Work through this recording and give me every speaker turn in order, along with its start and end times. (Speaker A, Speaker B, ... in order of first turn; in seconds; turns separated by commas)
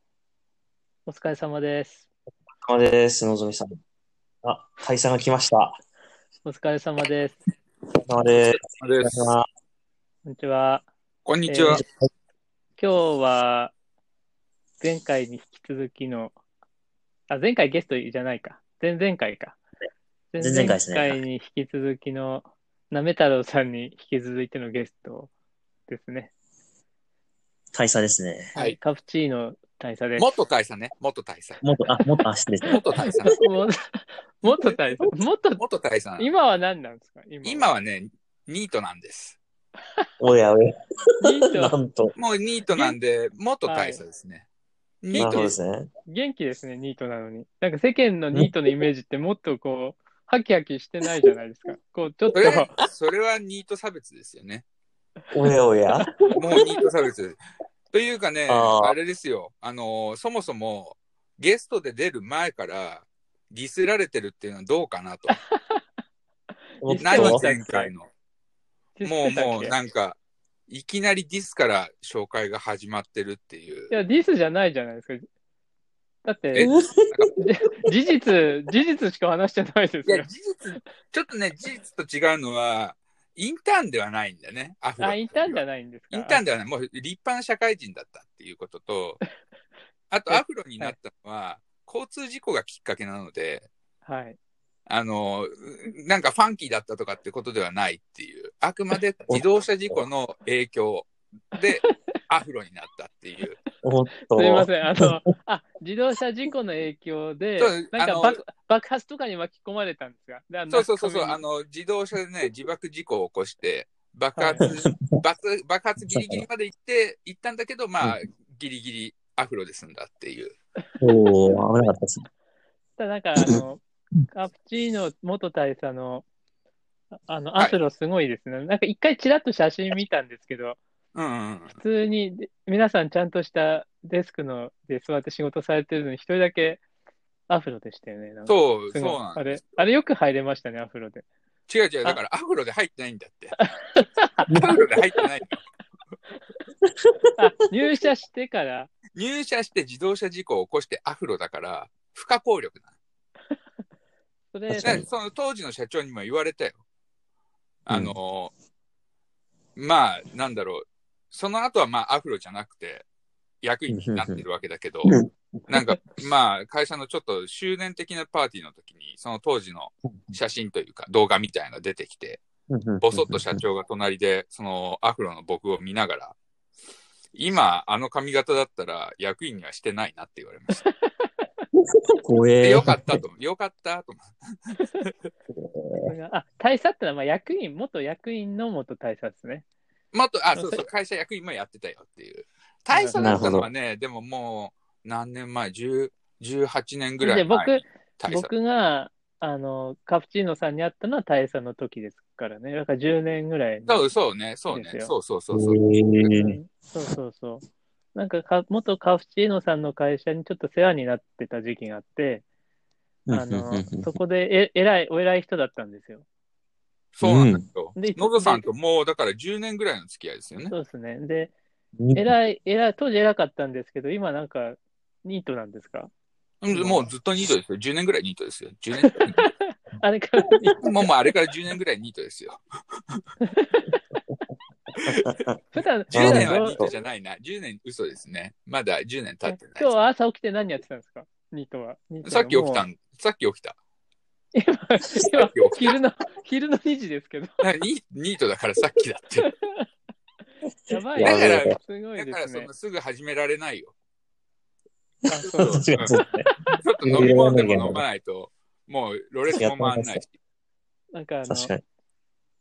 Speaker A: 1.1-2.1, Speaker B: 2.6-3.7, Speaker B: 4.4-5.8, Speaker A: 6.5-7.4, Speaker B: 7.9-9.5, Speaker C: 8.3-9.3, Speaker A: 10.2-10.9, Speaker C: 11.2-11.8, Speaker A: 11.5-11.8, Speaker A: 12.8-13.7, Speaker A: 14.8-16.4, Speaker A: 17.3-19.6, Speaker A: 20.3-25.3, Speaker B: 20.4-21.2, Speaker A: 25.9-26.3, Speaker B: 27.7-28.6, Speaker A: 28.6-30.3, Speaker C: 30.2-31.6, Speaker B: 31.6-33.3, Speaker C: 32.7-33.5, Speaker A: 33.0-35.6, Speaker C: 35.6-36.3, Speaker A: 36.2-37.7, Speaker C: 37.4-39.4, Speaker B: 40.2-40.8, Speaker A: 41.2-41.8, Speaker B: 41.6-42.1, Speaker C: 42.2-44.5, Speaker A: 43.7-44.0, Speaker C: 45.0-45.5, Speaker A: 45.1-45.5, Speaker B: 45.2-45.9, Speaker A: 46.1-52.7, Speaker C: 52.3-54.6, Speaker B: 55.3-56.1, Speaker A: 56.3-56.6, Speaker C: 56.4-57.4, Speaker C: 57.9-65.4, Speaker B: 58.5-59.0, Speaker A: 65.3-65.8, Speaker A: 66.8-67.9, Speaker B: 66.8-67.5, Speaker C: 67.0-68.1, Speaker A: 69.0-69.8, Speaker C: 69.0-73.9, Speaker A: 73.9-75.2, Speaker A: 76.2-76.7, Speaker C: 76.5-77.4, Speaker B: 76.6-77.2, Speaker A: 77.4-80.3, Speaker C: 80.1-89.2, Speaker A: 85.0-86.4, Speaker C: 90.1-93.7, Speaker A: 90.3-91.0, Speaker A: 94.0-94.4, Speaker C: 94.9-103.6, Speaker B: 99.3-100.0, Speaker B: 103.8-105.1, Speaker A: 104.2-111.4, Speaker C: 107.6-108.4, Speaker C: 110.7-120.5, Speaker A: 114.4-114.7, Speaker B: 116.1-116.5, Speaker B: 121.0-122.3, Speaker A: 123.0-126.2, Speaker A: 127.1-130.8, Speaker C: 131.2-131.8, Speaker A: 131.8-136.8, Speaker A: 137.5-141.2, Speaker C: 138.5-139.8, Speaker C: 141.7-143.6, Speaker A: 143.6-144.5, Speaker B: 144.5-144.8, Speaker C: 144.6-145.6, Speaker A: 147.4-148.9, Speaker C: 149.2-152.9, Speaker A: 154.5-155.0, Speaker B: 154.7-155.1, Speaker C: 154.8-156.8, Speaker C: 157.9-158.5, Speaker B: 157.9-158.2, Speaker C: 159.8-163.1, Speaker C: 163.6-165.1, Speaker B: 163.9-164.4, Speaker B: 165.1-165.3, Speaker C: 165.7-172.4, Speaker B: 170.0-170.3, Speaker B: 172.7-173.6, Speaker C: 173.0-176.4, Speaker C: 177.3-180.8, Speaker A: 180.9-181.3, Speaker B: 182.2-183.2, Speaker C: 182.6-185.1, Speaker B: 185.6-186.1, Speaker A: 186.1-189.7, Speaker C: 190.1-198.5, Speaker A: 190.6-190.8, Speaker A: 192.9-193.3, Speaker B: 193.2-193.7, Speaker A: 197.2-204.1, Speaker C: 203.9-206.3, Speaker A: 204.7-205.1, Speaker B: 205.5-206.6, Speaker A: 206.4-207.6, Speaker A: 208.2-212.4, Speaker B: 213.3-214.2, Speaker A: 213.3-216.2, Speaker C: 217.2-220.7, Speaker B: 217.2-217.6, Speaker A: 218.0-218.7, Speaker A: 220.7-221.5, Speaker B: 222.0-222.3, Speaker A: 222.2-226.1, Speaker C: 226.6-229.5, Speaker A: 226.7-227.1, Speaker A: 229.0-230.8, Speaker C: 230.8-232.6, Speaker A: 233.5-234.2, Speaker B: 235.1-235.6, Speaker A: 235.7-236.8, Speaker B: 236.1-236.9, Speaker C: 236.1-239.9, Speaker A: 239.5-242.9, Speaker C: 242.2-243.8, Speaker A: 244.5-247.6, Speaker C: 245.4-246.0, Speaker C: 247.6-249.5, Speaker A: 249.6-249.9, Speaker A: 250.9-252.7, Speaker B: 251.1-251.8, Speaker C: 251.2-253.9, Speaker A: 255.3-256.0, Speaker C: 255.5-256.1, Speaker B: 255.6-256.5, Speaker C: 256.8-260.3, Speaker B: 257.0-258.0, Speaker B: 259.5-260.2, Speaker A: 261.1-261.7, Speaker B: 261.5-261.8